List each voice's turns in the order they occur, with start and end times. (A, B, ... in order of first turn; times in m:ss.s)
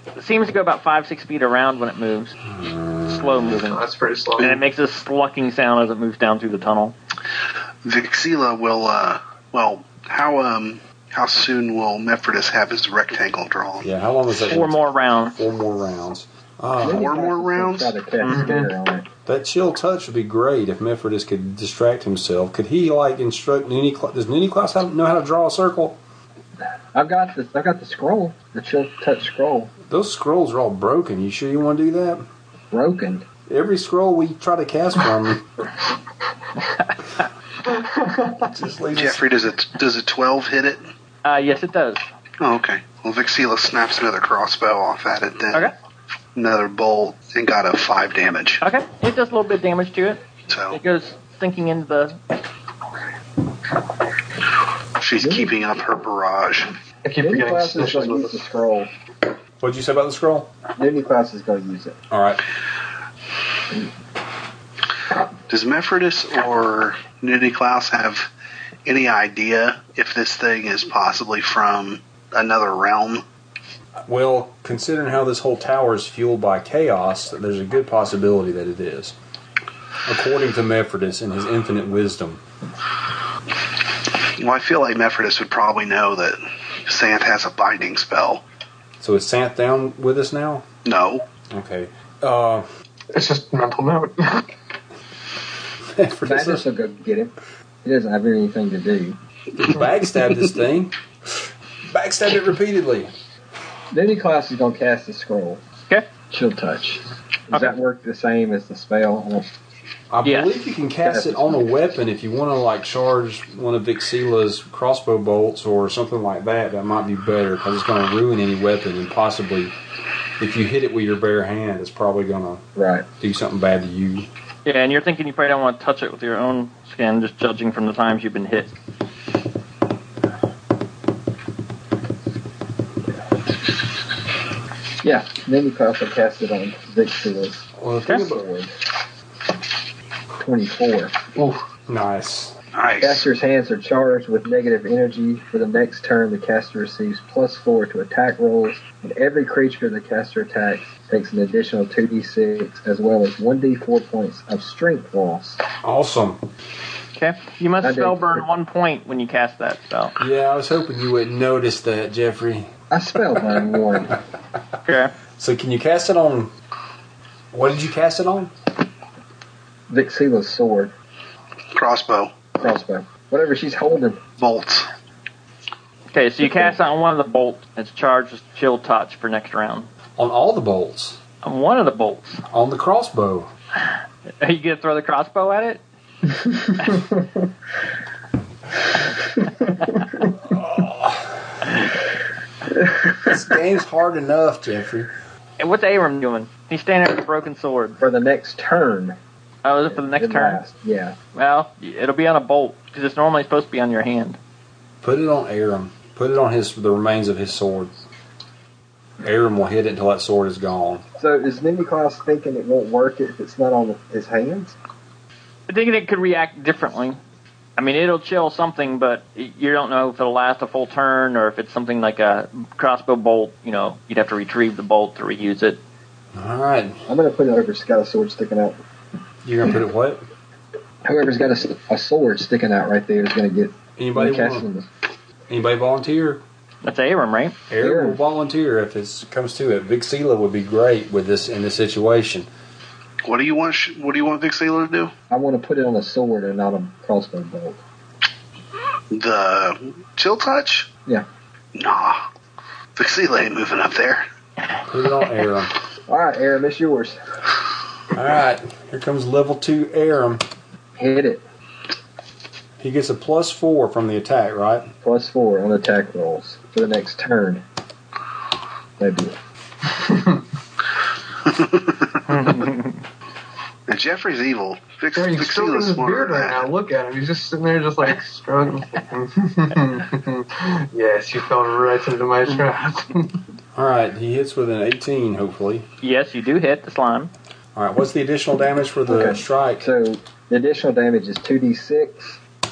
0:00.2-0:02.4 A
0:02.5-0:03.6 B
0:03.1-0:03.9 A
0:03.6-0:04.6 C
0:04.4-0:07.0 A
0:07.8-0:13.9 D
0:13.8-0:17.1 B
0:14.4-0:15.4 A
0:16.8-0:19.1 E
0:16.8-0:18.0 D
0:18.2-0:18.7 C
0:19.3-0:26.0 B
0:26.9-0:29.7 E
0:29.9-0:32.2 B
0:32.7-0:33.2 E
0:33.5-0:35.5 B
0:36.8-0:37.2 A
0:37.6-0:38.5 C
0:38.5-0:39.3 B
0:39.0-0:40.9 D
0:41.2-0:42.1 A
0:42.4-0:45.7 D
0:46.4-0:48.6 D
0:48.6-0:52.2 A
0:50.5-0:50.8 D
0:55.0-0:56.8 D
0:55.2-0:55.5 E
0:57.0-0:58.4 C
0:57.2-0:58.9 E
0:59.6-1:00.5 B
1:00.8-1:02.0 E
1:02.1-1:02.4 B
1:05.5-1:08.3 D
1:08.9-1:13.2 D
1:14.1-1:19.1 B
1:20.1-1:22.4 B
1:24.4-1:28.4 D
1:29.0-1:30.6 B
1:30.8-1:31.2 D
1:31.5-1:32.7 B
1:33.1-1:34.5 C
1:36.0-1:36.6 B
1:36.2-1:39.2 E
1:39.6-1:43.1 B
1:43.9-1:45.6 E
1:46.3-1:49.5 E
1:50.1-1:59.8 B
1:50.2-1:50.5 A
1:51.0-1:51.7 E
2:00.4-2:02.6 B
2:02.8-2:03.1 E
2:03.2-2:04.3 B
2:04.6-2:08.7 A
2:15.0-2:18.7 E
2:17.8-2:18.4 B
2:20.4-2:21.1 E
2:21.4-2:21.6 C
2:21.9-2:22.5 B
2:22.7-2:23.3 D
2:23.0-2:35.6 E
2:35.8-2:36.4 B
2:37.1-2:40.1 A
2:37.8-2:38.5 E
2:40.2-2:42.7 B
2:42.9-2:44.2 E
2:44.9-2:45.1 A
2:45.4-2:46.5 B
2:47.5-2:48.5 B
2:49.9-2:50.9 E
2:51.7-2:52.3 D
2:52.6-2:54.2 E
2:54.4-2:54.9 D
2:56.1-2:59.9 A
2:56.4-2:56.7 E
3:00.2-3:01.2 B
3:01.4-3:02.4 A
3:02.5-3:03.5 B
3:03.8-3:05.8 A
3:09.8-3:10.0 A
3:10.4-3:11.8 B
3:13.2-3:15.1 B
3:15.6-3:18.0 A
3:18.0-3:19.2 E
3:19.6-3:20.6 A
3:19.9-3:21.2 E
3:21.4-3:24.4 A
3:25.0-3:27.9 B
3:29.2-3:31.0 B
3:31.2-3:34.8 E
3:35.7-3:37.2 A
3:37.8-3:45.8 A
3:46.3-3:47.0 B
3:47.1-3:48.8 E
3:49.4-3:50.3 B
3:51.0-3:54.9 E
3:54.0-3:54.7 B
3:55.5-3:56.4 B
3:56.8-3:57.6 A
3:57.7-4:02.5 B
3:57.8-3:58.2 E
4:03.2-4:05.1 D
4:05.3-4:07.8 E
4:09.1-4:10.9 D
4:11.8-4:12.2 D
4:13.0-4:14.2 D
4:14.9-4:15.7 B
4:16.1-4:17.2 E
4:18.1-4:20.4 B
4:21.0-4:21.4 E
4:22.8-4:24.9 B
4:25.0-4:27.6 E
4:29.0-4:29.4 E
4:29.9-4:30.4 C
4:31.5-4:32.6 D
4:32.3-4:33.0 A
4:33.9-4:36.7 D
4:35.2-4:43.4 C
4:43.7-4:45.9 B
4:46.0-4:47.3 A
4:47.8-4:49.9 B
4:49.1-4:52.4 E